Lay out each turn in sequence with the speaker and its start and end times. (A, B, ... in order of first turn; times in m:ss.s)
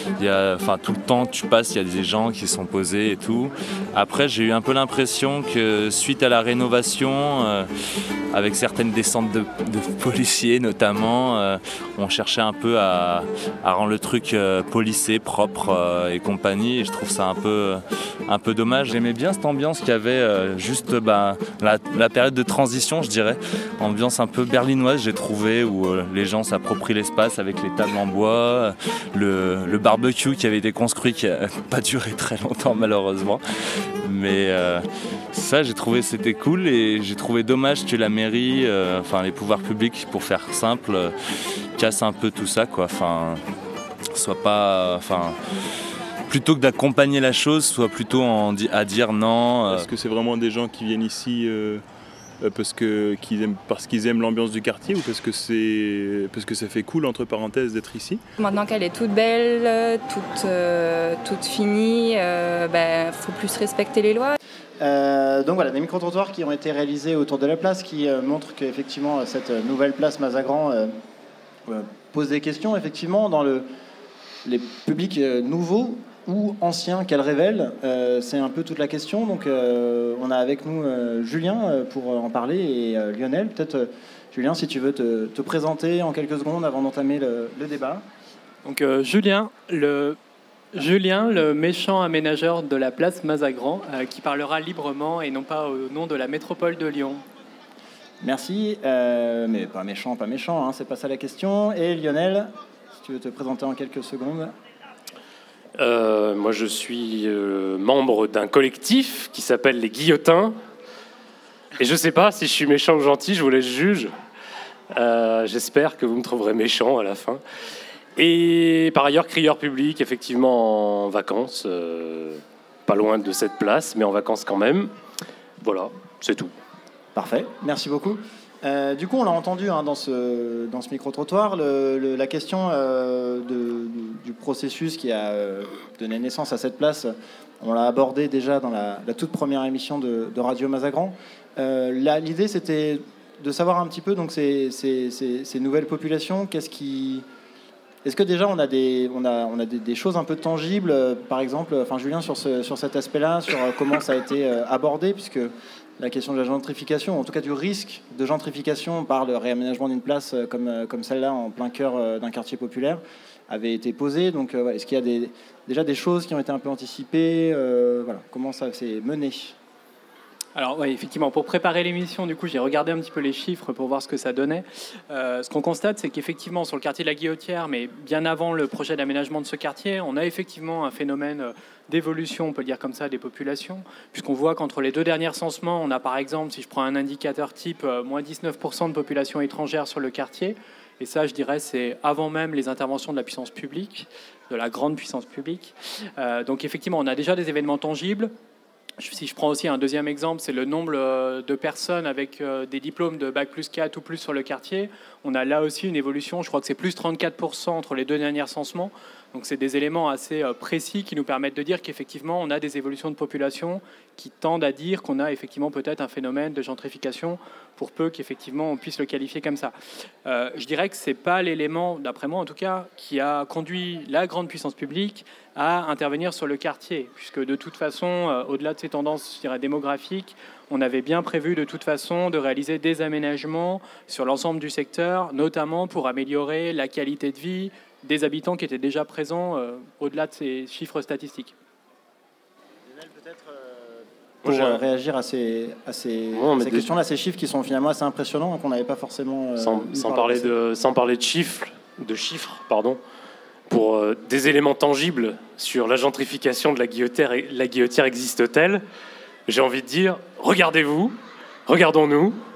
0:00.2-0:07.7 A
0:08.3-0:33.4 A
0:34.0-0:41.1 A
0:41.8-0:43.4 A
0:44.1-0:45.4 A
0:46.3-0:49.9 A
0:49.7-0:51.8 B
0:52.4-0:58.2 B
0:58.4-1:04.3 C
1:04.8-1:10.9 D
1:11.7-1:13.6 D
1:14.4-1:28.0 D
1:28.6-1:30.2 E
1:30.7-1:37.2 E
1:38.2-1:44.5 D
1:45.8-1:50.6 F
1:51.8-1:54.1 F
1:54.9-1:57.4 F
1:58.2-2:04.9 F
2:05.6-2:06.5 F
2:07.1-2:27.2 D
2:28.0-2:49.6 D
2:50.5-3:18.3 E
3:19.0-3:39.7 E
3:40.2-4:01.6 E
4:02.9-4:10.5 D
4:04.4-4:04.8 F
4:06.3-4:06.9 F
4:09.6-4:13.0 F
4:13.7-4:18.8 F
4:19.5-4:21.1 F
4:21.7-4:22.4 F